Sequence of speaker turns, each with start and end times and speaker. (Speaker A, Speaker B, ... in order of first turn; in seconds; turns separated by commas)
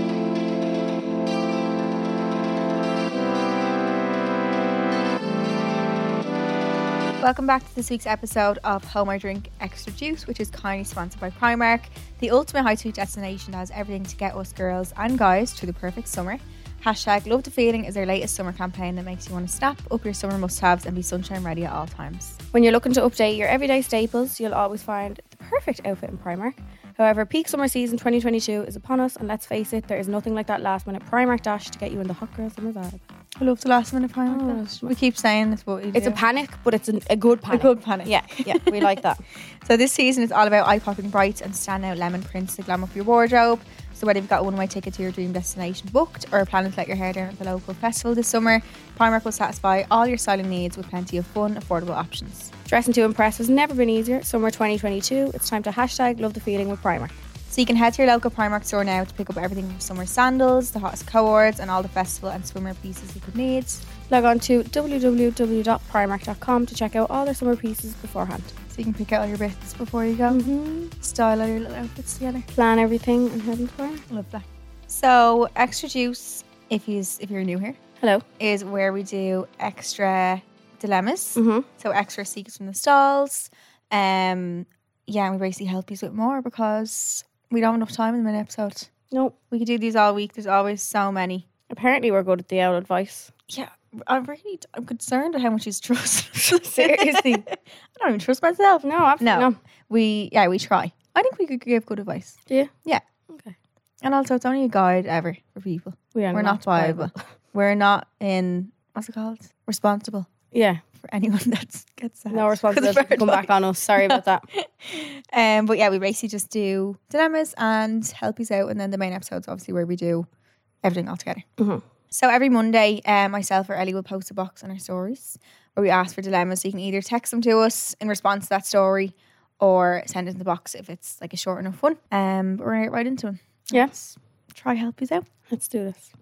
Speaker A: 7.2-22.4, Speaker B: 22.5-33.0, Speaker A: 33.4-36.2, Speaker B: 34.3-34.9, Speaker B: 35.9-39.2, Speaker A: 37.5-39.0, Speaker A: 39.6-52.5, Speaker B: 52.6-57.1, Speaker A: 57.5-63.8, Speaker B: 64.1-68.5, Speaker A: 68.7-72.5, Speaker B: 70.3-70.9, Speaker B: 72.5-74.0, Speaker A: 74.1-77.8, Speaker B: 78.0-78.2, Speaker A: 78.4-88.9, Speaker B: 81.3-81.7, Speaker A: 89.5-91.5, Speaker B: 91.7-93.3, Speaker A: 93.5-103.0, Speaker B: 96.6-97.4, Speaker B: 98.8-99.6, Speaker A: 104.0-110.3, Speaker B: 106.1-107.1, Speaker B: 110.5-110.8, Speaker A: 111.0-120.3, Speaker B: 112.3-114.4, Speaker A: 120.8-121.4, Speaker A: 122.1-135.2, Speaker B: 135.5-136.1